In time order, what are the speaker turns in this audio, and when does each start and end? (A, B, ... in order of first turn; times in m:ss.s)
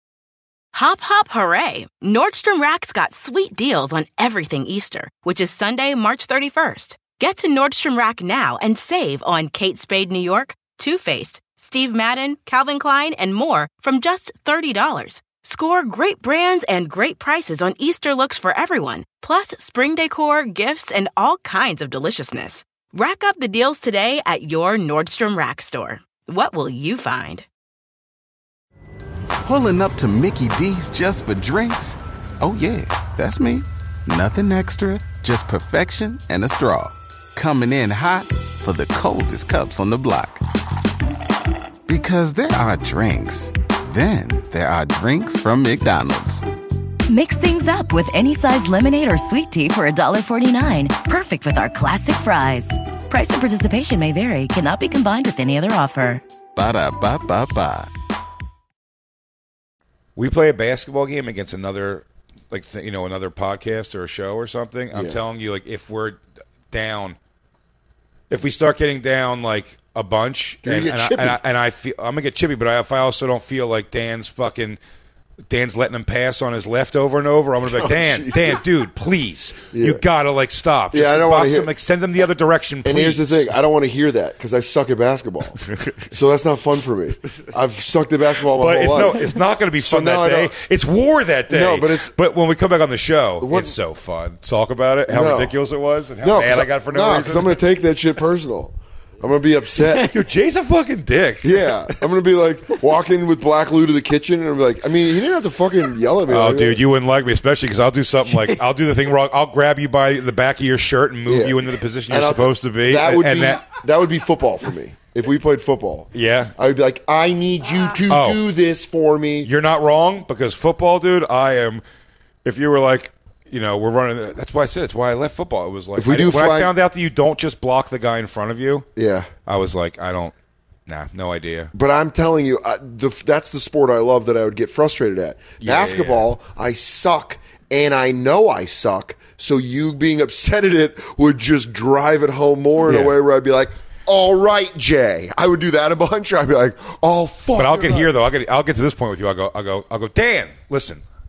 0:00.7-0:27.4 A
0:29.4-0:40.4 B
0:41.9-0:46.4 B
0:47.1-0:56.2 C
0:56.5-0:57.9 B
1:00.2-1:06.2 D
1:04.9-1:05.2 E
1:06.7-1:07.2 D
1:08.3-1:14.8 D
1:10.6-1:11.4 E
1:15.5-1:23.5 D
1:17.6-1:18.7 E
1:19.7-1:20.0 E
1:20.9-1:21.7 E
1:22.8-1:25.6 E
1:25.7-1:26.0 D
1:26.1-1:30.5 E
1:28.5-1:37.6 D
1:31.5-1:32.1 E
1:33.4-1:33.8 E
1:35.1-1:35.6 E
1:36.2-1:40.1 E
1:39.9-1:42.0 D
1:41.4-1:46.8 E
1:46.3-1:53.6 D
1:51.3-1:59.5 E
1:56.1-1:56.5 D
1:58.1-1:58.4 D
1:59.4-2:01.8 D
2:02.4-2:08.9 D
2:06.0-2:06.7 E
2:09.0-2:09.3 E
2:09.4-2:10.3 D
2:10.9-2:11.7 D
2:11.7-2:28.1 E
2:15.6-2:16.3 D
2:22.8-2:23.2 D
2:27.5-2:31.0 D